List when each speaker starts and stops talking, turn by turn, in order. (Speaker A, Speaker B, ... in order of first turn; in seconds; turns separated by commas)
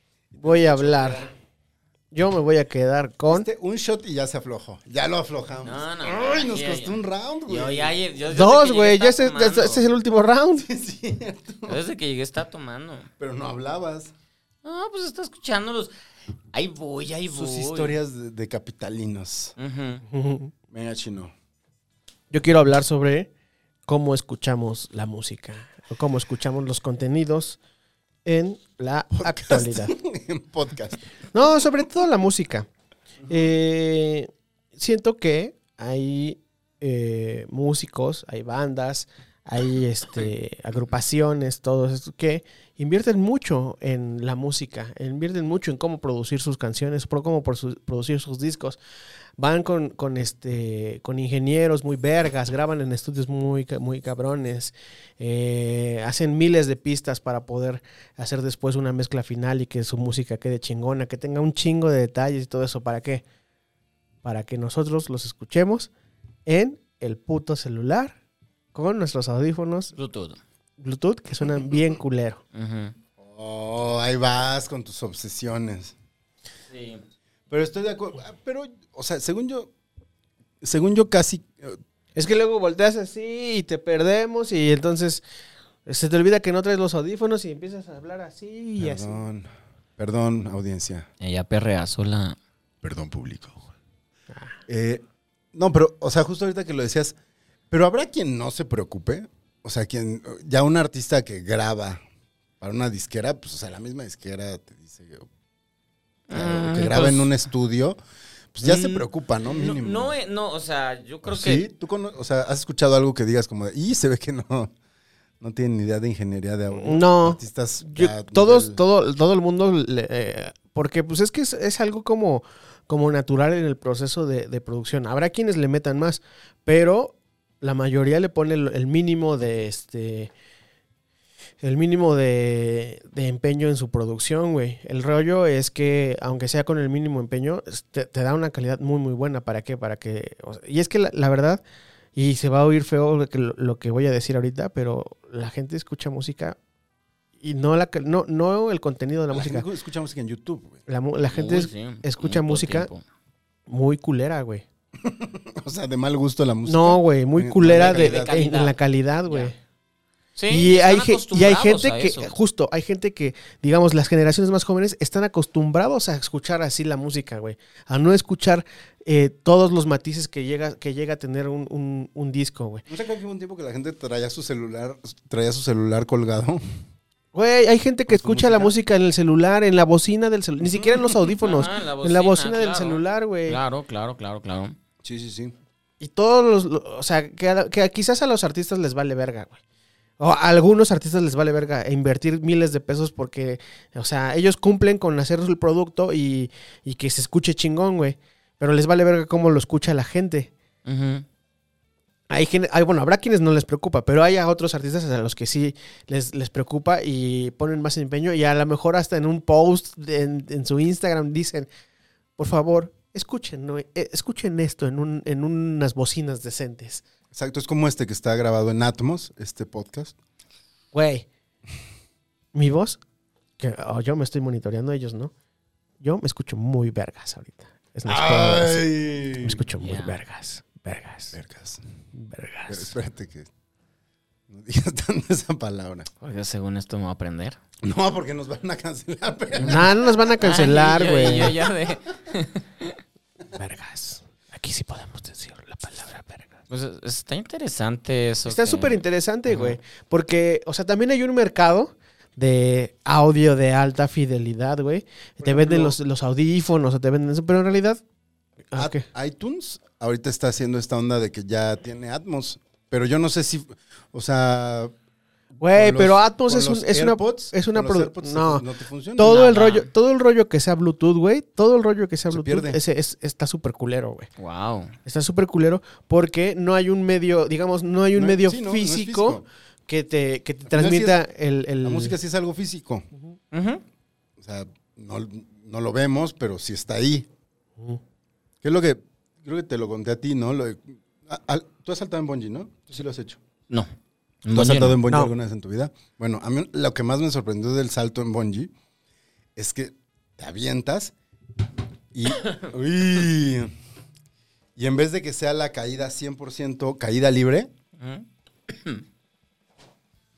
Speaker A: 0.3-1.2, Speaker B: 0.4-1.3, Speaker C: 0.8-1.1, Speaker B: 2.1-3.5, Speaker A: 3.3-7.9, Speaker C: 5.6-9.8, Speaker B: 8.3-10.7, Speaker A: 10.6-11.8, Speaker C: 11.7-13.1, Speaker A: 13.2-14.1, Speaker C: 14.6-15.9, Speaker C: 16.5-17.9, Speaker A: 17.3-19.5, Speaker C: 19.6-20.0, Speaker B: 20.1-20.5, Speaker A: 20.7-21.3, Speaker B: 22.3-23.3, Speaker B: 23.9-27.6, Speaker B: 28.2-29.9, Speaker A: 29.1-31.0, Speaker B: 31.3-32.7, Speaker B: 33.3-48.8, Speaker B: 49.4-63.2, Speaker B: 64.2-65.9, Speaker B: 66.5-68.2, Speaker B: 68.7-69.9, Speaker C: 69.9-70.4, Speaker B: 70.8-72.4, Speaker C: 72.5-72.9, Speaker A: 73.2-75.9, Speaker C: 76.7-77.0, Speaker A: 77.5-79.7, Speaker A: 80.6-81.8, Speaker B: 82.1-85.2, Speaker B: 85.8-89.2, Speaker A: 88.8-91.1, Speaker C: 91.2-92.4, Speaker A: 92.8-93.7, Speaker A: 94.7-97.2, Speaker A: 97.7-102.0, Speaker A: 102.6-105.3, Speaker C: 106.3-107.3, Speaker A: 106.3-108.0, Speaker A: 108.5-110.1, Speaker C: 108.6-111.7, Speaker A: 111.2-114.7, Speaker A: 115.4-118.8, Speaker B: 116.7-130.3, Speaker B: 131.6-141.6, Speaker B: 142.2-146.6, Speaker B: 147.4-149.6, Speaker A: 149.3-150.8, Speaker B: 150.9-152.9, Speaker C: 151.3-153.0, Speaker B: 153.7-154.6, Speaker A: 155.0-158.3, Speaker B: 156.7-159.6, Speaker C: 157.6-158.8, Speaker C: 159.3-159.5, Speaker C: 160.3-162.3, Speaker B: 160.5-172.8, Speaker A: 172.9-176.6, Speaker B: 177.3-183.6, Speaker A: 178.1-178.7, Speaker C: 180.9-184.8, Speaker A: 185.0-185.5, Speaker B: 186.0-189.6, Speaker B: 190.2-200.5, Speaker C: 200.8-201.2, Speaker B: 202.3-211.7, Speaker B: 212.4-217.0, Speaker A: 217.3-220.1, Speaker B: 220.9-221.2, Speaker B: 222.5-223.0, Speaker B: 223.6-225.3, Speaker B: 226.0-228.9, Speaker A: 228.1-229.6, Speaker B: 229.4-231.3, Speaker C: 229.8-230.1, Speaker A: 231.3-231.8, Speaker B: 232.1-232.9, Speaker A: 232.7-233.5, Speaker A: 234.5-236.1, Speaker C: 236.2-237.6, Speaker A: 237.8-239.9, Speaker B: 239.6-241.6, Speaker C: 240.4-243.0, Speaker B: 243.5-246.5, Speaker C: 246.7-249.8, Speaker B: 248.5-258.0, Speaker A: 255.4-256.0, Speaker B: 258.7-259.0, Speaker A: 258.8-264.9, Speaker B: 265.6-268.6, Speaker A: 265.7-269.4, Speaker B: 269.2-274.3, Speaker C: 269.2-269.9, Speaker A: 272.3-272.8, Speaker C: 274.4-274.9, Speaker B: 275.1-282.1, Speaker A: 278.1-279.4, Speaker A: 280.7-281.2, Speaker A: 281.8-283.1, Speaker C: 283.5-283.8, Speaker A: 284.4-287.3, Speaker A: 288.6-293.4, Speaker C: 294.4-295.0, Speaker A: 294.5-298.7, Speaker A: 299.6-301.1, Speaker A: 302.1-303.7, Speaker A: 304.8-307.7, Speaker C: 308.0-309.0